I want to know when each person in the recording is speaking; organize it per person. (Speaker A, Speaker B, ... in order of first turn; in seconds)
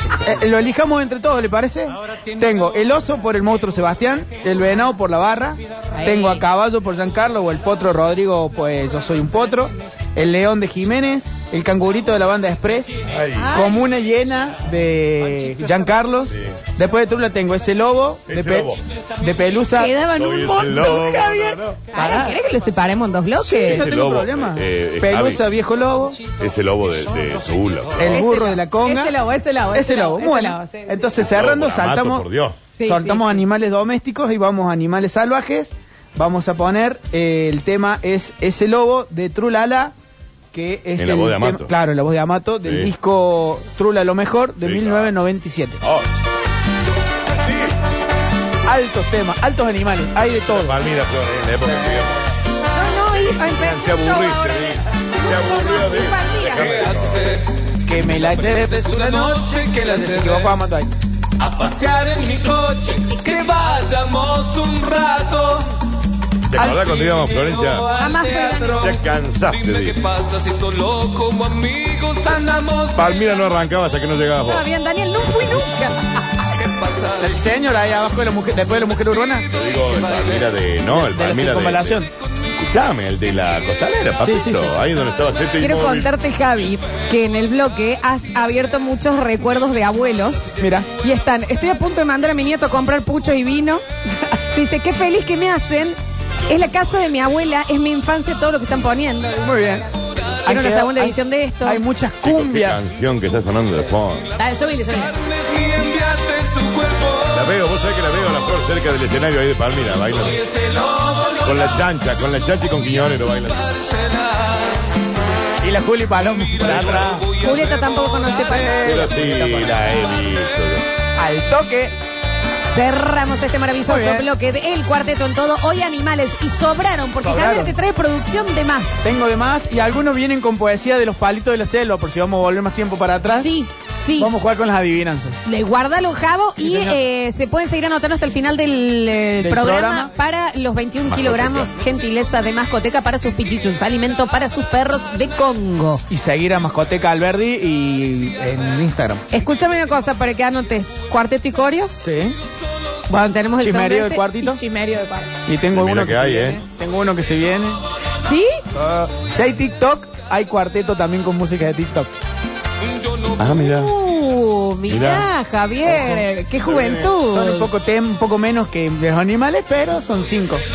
Speaker A: 0.2-13.0, 13.5-19.9, 21.9-22.4, 23.4-26.2, 28.0-29.1, 29.7-32.2, 32.8-39.9, 40.5-45.8, 48.6-50.8, 57.8-61.0, 66.5-69.0, 72.2-73.0, 77.0-79.5, 80.8-82.1, 84.2-84.7, 90.6-90.9, 99.4-99.9, 100.4-102.8, 115.6-117.4, 118.4-120.0, 121.2-122.0, 123.8-124.3, 127.2-127.7, 129.0-133.5, 134.2-135.4, 136.6-137.0, 139.4-140.1, 146.1-149.2, 152.0-152.4, 153.6-154.6, 155.4-157.8, 158.8-162.1, 165.8-166.3, 167.2-170.6
Speaker B: 5.9-6.4, 13.3-13.8, 19.7-23.9, 28.1-31.2, 32.8-33.4, 52.7-56.9, 68.0-69.0, 74.4-76.5, 85.6-93.8, 94.4-99.5, 100.4-101.8, 104.3-105.1, 117.3-118.8, 122.7-129.0, 133.3-134.3, 135.4-146.0, 149.3-152.1, 153.1-155.3, 158.2-158.6, 163.7-167.7
Speaker C: 13.1-13.5, 16.3-16.6, 18.3-18.8, 20.1-21.8, 23.6-25.4, 26.3-28.2, 31.2-32.6, 41.0-41.7, 42.6-42.9, 44.6-45.1, 45.8-46.1, 47.5-47.7, 50.5-52.2, 53.1-57.3, 66.5-67.9, 68.8-70.0, 72.9-74.7, 79.5-82.0, 82.5-86.1, 102.2-104.3, 107.3-110.5, 111.3-113.9, 116.6-117.1, 118.8-120.8, 141.1-141.8, 155.7-156.6, 163.3-163.9, 164.9-165.3, 166.7-167.1
Speaker D: 56.6-57.4, 58.6-60.4, 61.4-65.7, 69.9-72.8, 105.4-107.2